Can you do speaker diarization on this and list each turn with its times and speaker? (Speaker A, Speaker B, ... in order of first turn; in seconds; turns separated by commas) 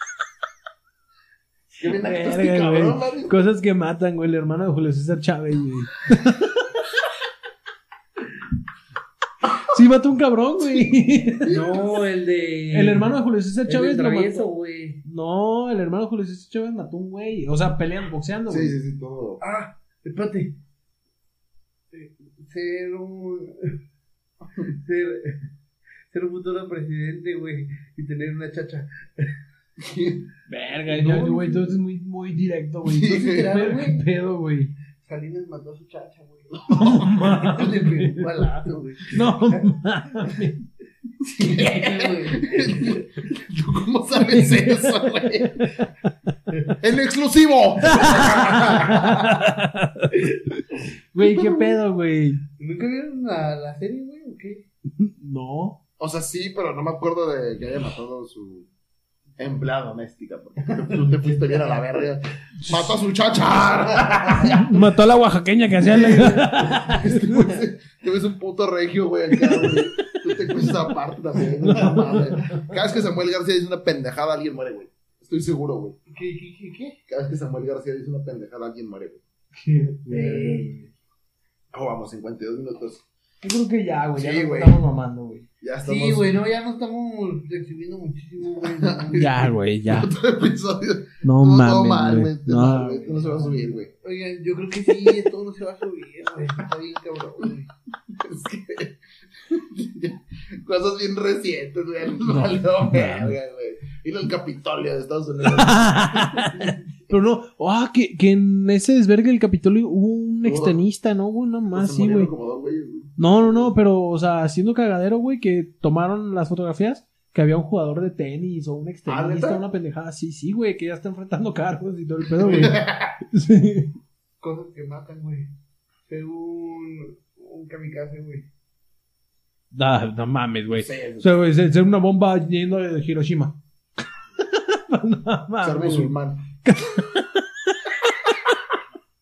Speaker A: 1.8-3.5, Speaker B: 1.8-6.7, Speaker B: 9.6-11.6, Speaker C: 11.5-13.1, Speaker B: 12.7-14.5, Speaker C: 13.7-15.0, Speaker B: 15.0-18.8, Speaker A: 18.5-19.4, Speaker C: 19.4-20.6, Speaker C: 21.9-23.8, Speaker C: 24.7-25.4, Speaker C: 26.1-29.3, Speaker A: 29.8-30.3, Speaker B: 30.5-34.7, Speaker C: 30.9-31.7, Speaker A: 32.9-33.5, Speaker C: 33.0-34.0, Speaker C: 35.0-39.7, Speaker B: 36.7-38.4, Speaker B: 39.1-40.6, Speaker A: 41.2-45.7, Speaker C: 41.4-43.0, Speaker B: 44.2-45.7, Speaker A: 46.8-49.5, Speaker B: 47.8-52.4, Speaker A: 51.2-51.8, Speaker C: 52.6-54.7, Speaker B: 55.0-55.8, Speaker A: 56.0-58.7, Speaker A: 59.4-64.8, Speaker C: 60.8-61.4, Speaker B: 64.4-67.6, Speaker A: 65.8-76.0, Speaker B: 69.4-70.7, Speaker B: 71.6-72.7, Speaker C: 76.1-77.0, Speaker A: 77.1-79.2, Speaker B: 79.7-80.9, Speaker C: 80.1-80.7, Speaker A: 81.7-83.0, Speaker B: 83.4-85.5, Speaker A: 84.2-84.8, Speaker A: 85.6-86.4, Speaker C: 85.8-89.5, Speaker A: 88.6-93.9, Speaker B: 89.2-90.1, Speaker B: 91.2-93.0, Speaker C: 93.1-97.7, Speaker A: 98.1-106.8, Speaker B: 102.3-103.3, Speaker B: 105.5-112.3, Speaker A: 110.4-110.8, Speaker A: 111.7-113.7, Speaker B: 113.2-124.0, Speaker A: 119.1-119.6, Speaker C: 122.4-122.8, Speaker A: 122.5-123.1, Speaker C: 124.4-125.5, Speaker C: 126.1-128.5, Speaker B: 129.7-133.6, Speaker A: 130.7-131.3, Speaker B: 134.4-138.4, Speaker A: 135.6-136.5